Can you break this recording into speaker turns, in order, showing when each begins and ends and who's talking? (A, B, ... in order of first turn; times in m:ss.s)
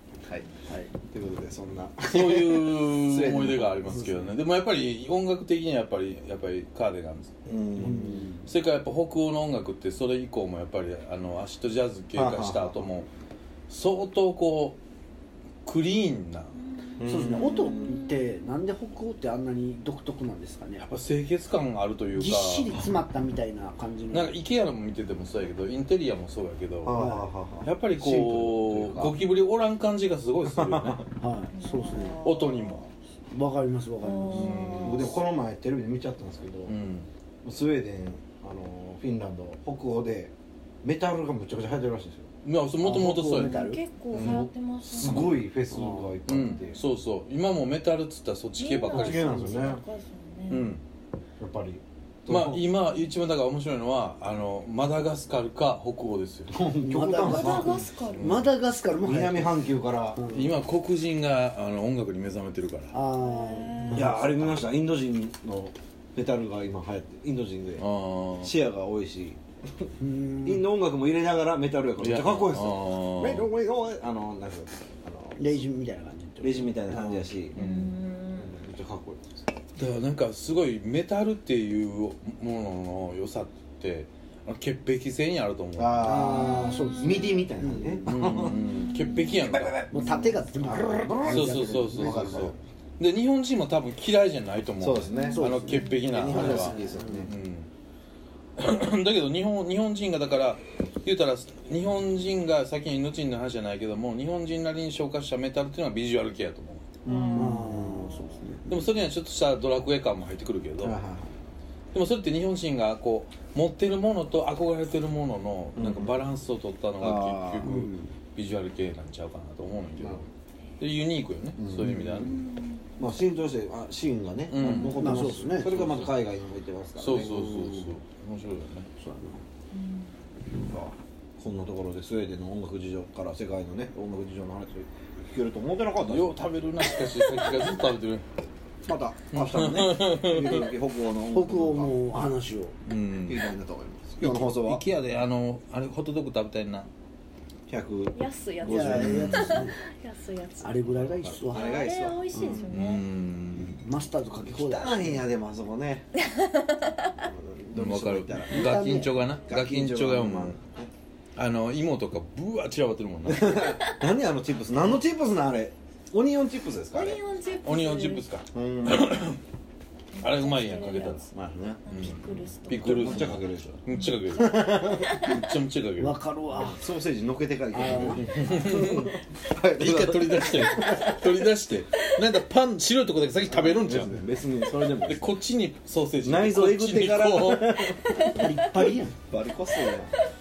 0:00.6-0:00.9 A
0:01.1-0:03.7 B
0:02.0-0:07.3 C
0:03.8-0:04.3 A
0:07.4-0:08.3 B
0:07.8-0:08.5 A
0:08.4-0:13.1 C
0:12.1-0:12.9 B
0:13.7-0:14.8 C
0:15.6-0:16.6 C
0:16.7-0:18.3 D
0:17.0-0:18.0 B
0:17.0-0:20.9 A
0:20.9-0:22.7 C
0:22.1-0:24.4 A
0:24.1-0:27.0 C
0:26.8-0:29.2 B
0:26.9-0:27.3 A
0:27.6-0:31.0 C
0:30.5-0:31.0 B
0:31.2-0:32.2 A
0:31.5-0:32.8 D
0:32.2-0:32.9 C
0:33.3-0:35.1 A
0:34.0-0:35.1 D
0:34.3-0:35.1 C
0:34.7-0:36.7 B
0:36.7-0:37.1 C
0:37.4-0:42.3 B
0:42.4-0:43.6 C
0:42.8-0:43.8 A
0:43.3-0:45.3 D
0:44.1-0:45.4 C
0:44.1-0:46.8 B
0:45.7-0:46.2 A
0:46.2-0:49.4 C
0:46.4-0:46.9 D
0:48.6-0:50.7 D
0:48.9-0:49.8 B
0:49.3-0:49.7 A
0:50.5-0:50.8 C
0:51.4-0:52.6 B
0:52.3-0:56.5 C
0:56.5-0:57.8 B
0:56.6-1:00.6 A
0:57.2-0:58.3 D
0:58.1-0:58.5 C
0:59.0-1:00.2 B
1:00.3-1:02.9 C
1:02.9-1:04.6 A
1:03.2-1:04.1 D
1:03.9-1:07.8 B
1:07.8-1:08.5 C
1:08.4-1:09.9 B
1:10.0-1:10.7 A
1:10.4-1:15.6 B
1:12.0-1:13.5 C
1:15.4-1:17.3 A
1:16.4-1:17.6 B
1:17.5-1:18.6 D
1:17.5-1:17.9 C
1:18.4-1:19.4 B
1:19.8-1:26.2 C
1:25.8-1:28.6 B
1:26.0-1:28.6 A
1:26.3-1:27.5 D
1:28.0-1:30.1 C
1:28.8-1:29.3 D
1:29.4-1:32.6 B
1:29.9-1:32.5 A
1:31.2-1:37.7 C
1:34.8-1:37.3 B
1:35.1-1:36.1 D
1:35.3-1:37.3 A
1:38.6-1:46.9 C
1:47.0-1:47.7 B
1:47.0-1:48.2 D
1:47.2-1:48.9 A
1:48.7-1:51.0 C
1:50.8-1:51.3 B
1:51.9-2:00.2 C
1:55.8-1:56.2 B
1:57.0-1:57.8 B
1:57.6-1:58.1 A
2:00.0-2:00.3 B
2:00.8-2:02.4 C
2:01.6-2:02.1 B
2:02.1-2:02.9 D
2:03.0-2:07.5 B
2:04.5-2:05.0 C
2:04.8-2:06.1 A
2:07.0-2:08.9 C
2:07.1-2:08.0 A
2:09.0-2:09.4 A
2:09.7-2:10.3 D
2:10.6-2:16.4 B
2:16.0-2:18.2 C
2:18.8-2:22.4 B
2:19.3-2:20.7 C
2:21.3-2:22.7 A
2:22.8-2:23.4 C
2:23.2-2:24.8 B
2:24.2-2:26.9 C
2:27.7-2:29.4 B
2:28.1-2:30.8 D
2:28.6-2:29.8 A
2:28.9-2:29.6 C
2:30.6-2:31.8 A
2:30.8-2:32.2 B
2:31.5-2:33.0 D
2:32.3-2:32.6 A
2:32.7-2:33.8 C
2:33.5-2:35.3 A
2:34.4-2:36.1 B
2:36.2-2:37.2 D
2:37.2-2:38.8 B
2:37.7-2:40.6 C
2:38.5-2:39.2 A
2:39.5-2:40.9 B
2:41.4-2:43.7 C
2:43.2-2:47.2 B
2:43.6-2:44.0 D
2:46.9-2:48.2 D
2:47.6-2:49.4 C
2:48.5-2:49.1 B
2:50.1-2:51.3 D
2:50.2-2:51.3 C
2:51.3-2:51.8 B
2:51.8-2:53.4 D
2:51.9-2:56.2 C
2:52.7-2:53.8 B
2:53.9-2:55.5 D
2:54.6-2:55.2 A
2:56.0-2:56.8 A
2:56.5-3:01.1 B
2:57.7-2:58.7 A
2:57.9-2:59.1 C
2:59.8-3:04.2 C
3:00.5-3:01.3 D
3:03.5-3:05.2 B
3:05.0-3:07.9 C
3:06.2-3:10.2 B
3:08.1-3:08.9 D
3:08.3-3:09.1 A